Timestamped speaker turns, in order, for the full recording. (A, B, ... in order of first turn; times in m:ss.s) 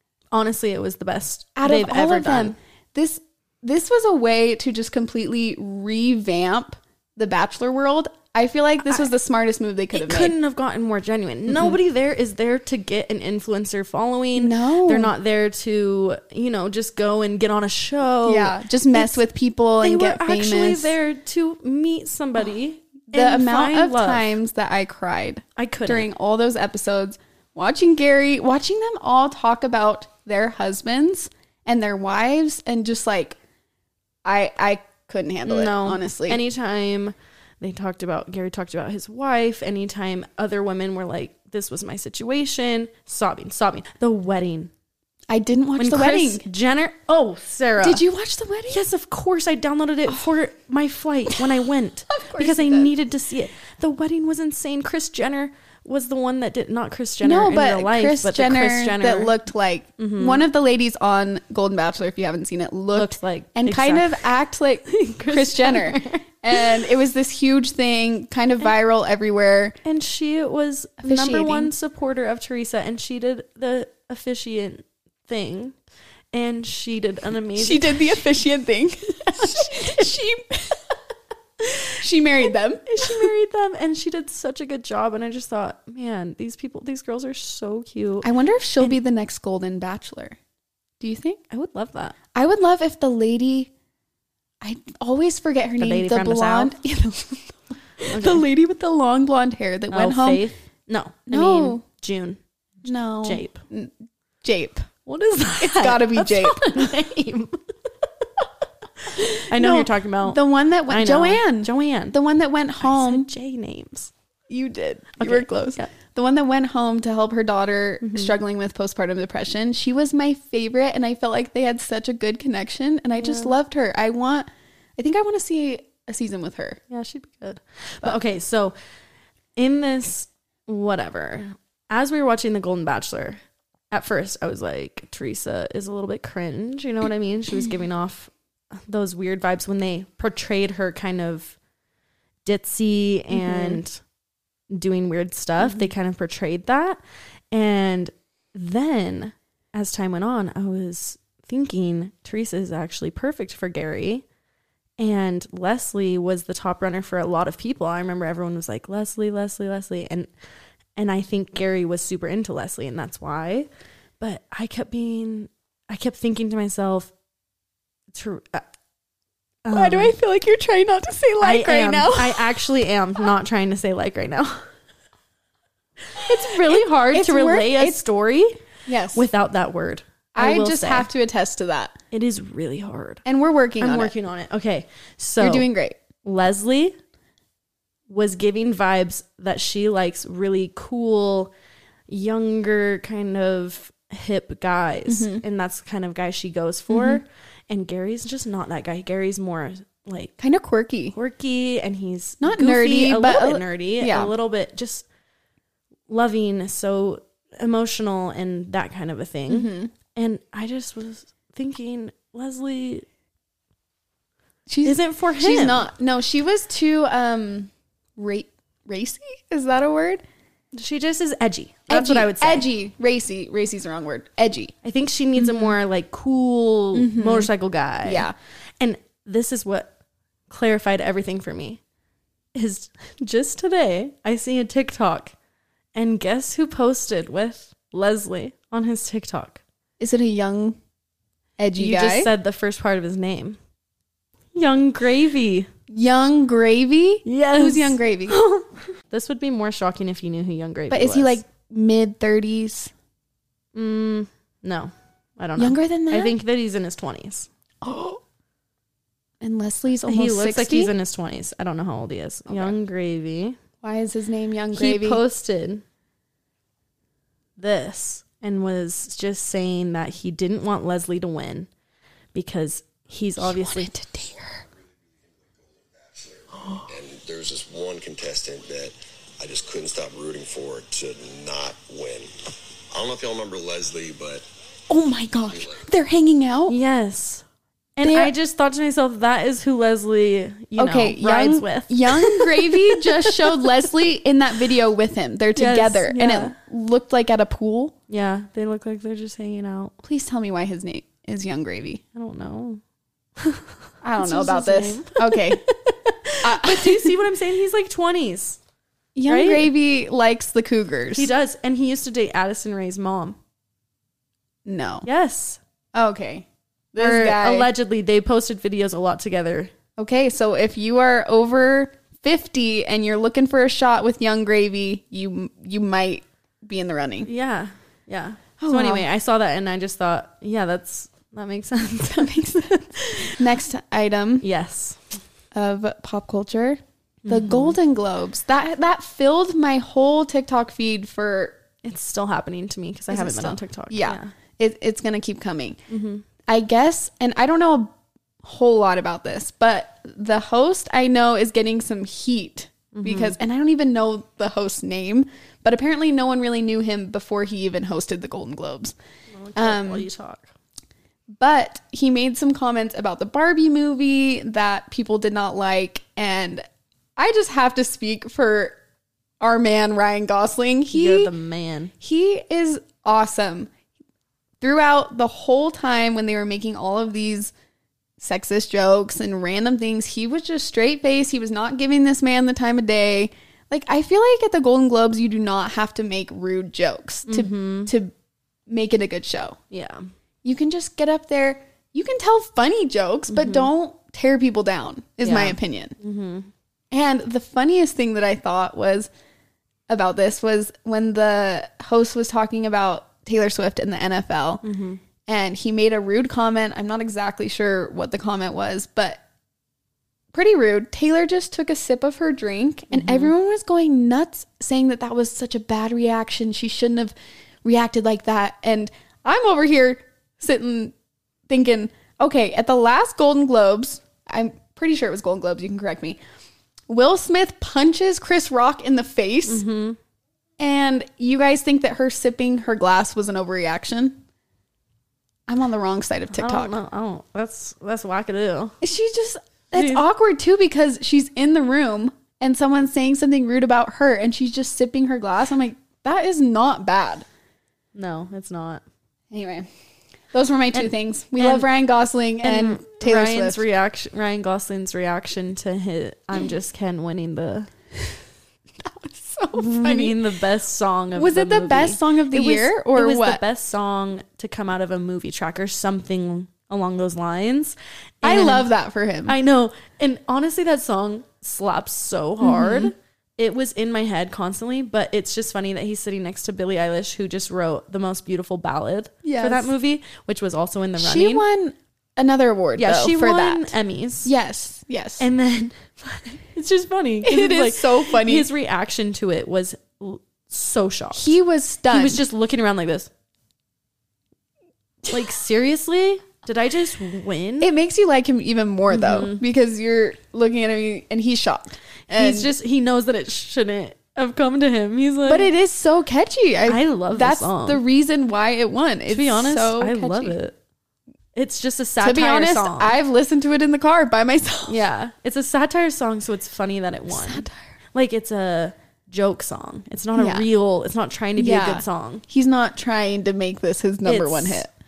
0:00.3-0:02.6 A
0:01.6-0:10.4 B
0:09.9-0:19.2 A
0:14.4-0:15.1 B
0:18.3-0:20.9 B
0:19.8-0:24.3 A
0:23.1-0:33.4 B
0:25.6-0:26.1 A
0:34.2-0:36.4 B
0:35.5-0:44.7 A
0:45.3-0:46.4 B
0:45.8-0:48.0 A
0:47.8-0:48.8 B
0:48.7-0:59.4 A
0:52.1-0:52.9 B
0:57.2-1:09.8 B
1:00.0-1:00.4 A
1:02.9-1:04.2 A
1:04.9-1:06.8 A
1:09.8-1:15.8 A
1:11.0-1:11.7 B
1:16.3-1:18.0 A
1:17.6-1:21.0 B
1:19.4-1:19.9 A
1:21.9-1:23.3 B
1:22.9-1:28.3 A
1:28.2-1:30.4 B
1:31.0-1:31.4 B
1:31.5-1:32.2 A
1:32.3-1:33.7 B
1:34.6-1:40.4 B
1:35.8-1:36.7 A
1:38.0-1:38.4 A
1:39.9-1:42.4 A
1:41.3-1:41.8 B
1:42.8-1:44.9 B
1:43.2-1:43.6 A
1:45.1-1:47.6 A
1:45.6-1:47.0 B
1:49.1-1:53.3 B
1:49.2-1:52.2 A
1:52.8-1:54.1 A
1:54.5-2:06.8 B
1:55.2-1:55.9 A
1:58.0-1:58.3 A
2:03.2-2:03.5 A
2:06.9-2:08.8 A
2:09.6-2:13.4 A
2:13.9-2:21.6 A
2:22.4-2:24.0 A
2:23.3-2:23.8 B
2:24.7-2:27.0 A
2:25.6-2:25.9 B
2:27.5-2:34.2 A
2:35.0-2:40.3 A
2:41.0-2:43.7 A
2:44.2-2:47.1 A
2:48.1-2:48.6 A
2:49.6-2:50.2 A
2:49.7-2:52.5 B
2:51.4-2:54.6 A
2:56.2-2:58.6 A
2:56.2-2:58.1 B
2:58.9-2:59.3 B
2:59.2-3:01.1 A
3:00.4-3:02.0 B
3:02.1-3:03.2 A
3:03.2-3:04.1 B
3:03.8-3:05.7 A
3:05.4-3:06.0 B
3:06.2-3:07.0 A
3:08.1-3:11.5 A
3:12.1-3:20.4 A
3:15.1-3:15.4 B
3:16.9-3:17.2 B
3:20.4-3:21.2 B
3:21.1-3:25.1 A
3:22.4-3:24.3 B
3:26.1-3:33.1 A
3:29.5-3:29.9 B
3:34.7-3:40.2 B
3:34.8-3:35.9 A
3:40.7-3:42.7 A
3:41.9-3:44.7 B
3:44.8-3:48.3 A
3:45.4-3:45.8 B
3:46.9-3:47.5 B
3:48.0-3:48.3 B
3:48.8-3:49.9 A
3:50.5-3:51.8 A
3:52.5-3:55.3 A
3:56.0-3:59.6 A
4:00.0-4:00.8 B
4:01.6-4:02.3 B
4:01.8-4:03.6 A
4:04.6-4:05.7 A
4:05.9-4:08.4 B
4:07.2-4:11.4 A
4:10.9-4:12.9 B
4:13.8-4:17.5 A
4:15.6-4:16.3 B
4:17.8-4:18.2 B
4:19.4-4:20.9 B
4:20.1-4:23.6 A
4:22.5-4:22.8 B
4:23.8-4:25.2 B
4:24.7-4:25.8 A
4:27.6-4:31.7 A
4:32.3-4:33.9 A
4:33.4-4:34.6 B
4:35.5-4:42.3 C
4:42.9-4:44.4 C
4:44.9-4:46.8 B
4:45.5-4:45.8 C
4:46.7-4:47.4 A
4:48.0-4:53.6 A
4:48.0-4:48.3 B
4:50.8-4:58.0 B
4:55.6-4:56.6 A
4:58.1-4:59.9 A
5:00.0-5:02.0 B
5:02.1-5:02.8 A
5:03.4-5:08.6 A
5:04.0-5:05.6 B
5:06.4-5:07.2 B
5:09.2-5:11.3 B
5:09.3-5:09.7 A
5:11.1-5:13.4 A
5:14.7-5:15.1 B
5:15.0-5:15.6 A
5:16.0-5:17.7 B
5:17.0-5:19.7 A
5:20.0-5:27.3 B
5:27.2-5:33.4 A
5:28.6-5:29.0 B
5:32.2-5:34.4 B
5:34.4-5:35.0 A
5:35.5-5:41.6 B
5:37.2-5:37.8 A
5:41.8-5:44.3 A
5:43.1-5:45.8 B
5:45.9-5:46.2 A
5:46.5-5:59.0 B
5:52.9-5:53.4 A
5:59.3-6:00.5 A
5:59.6-6:00.1 B
6:01.4-6:06.6 B
6:07.2-6:08.8 B
6:09.4-6:11.3 B
6:10.9-6:11.9 A
6:12.0-6:13.7 B
6:14.6-6:17.5 B
6:18.2-6:28.1 B
6:27.3-6:27.9 A
6:28.7-6:29.6 B
6:29.7-6:30.1 A
6:30.4-6:36.0 B
6:33.3-6:33.7 A
6:35.2-6:36.5 A
6:36.9-6:39.1 B
6:39.9-6:44.6 B
6:44.6-6:45.0 A
6:45.3-6:49.2 B
6:50.3-7:00.9 B
6:52.9-6:53.3 A
7:01.5-7:06.2 B
7:06.9-7:09.6 B
7:09.5-7:10.0 A
7:10.6-7:14.2 B
7:15.5-7:16.7 B
7:16.3-7:18.8 A
7:18.8-7:27.3 B
7:19.8-7:20.0 A
7:28.0-7:28.8 A
7:29.3-7:29.7 B
7:30.3-7:33.6 B
7:30.8-7:31.7 A
7:32.4-7:37.7 A
7:38.8-7:40.2 B
7:39.5-7:48.7 A
7:41.2-7:43.4 B
7:48.2-7:49.3 B
7:49.3-8:01.4 A
7:52.4-7:52.9 B
7:59.2-7:59.7 B
8:01.0-8:03.7 B
8:02.8-8:04.3 A
8:04.2-8:05.3 B
8:05.2-8:11.3 A
8:07.2-8:08.5 B
8:11.1-8:12.2 B
8:11.9-8:13.1 A
8:15.1-8:17.7 A
8:17.6-8:22.5 B
8:18.9-8:19.4 A
8:22.1-8:25.5 A
8:25.3-8:30.4 B
8:26.7-8:27.8 A
8:29.1-8:30.6 A
8:31.4-8:32.9 A
8:32.0-8:34.8 B
8:34.7-8:42.2 A
8:37.1-8:37.6 B
8:40.2-8:40.5 B
8:41.4-8:44.7 B
8:44.0-8:44.6 A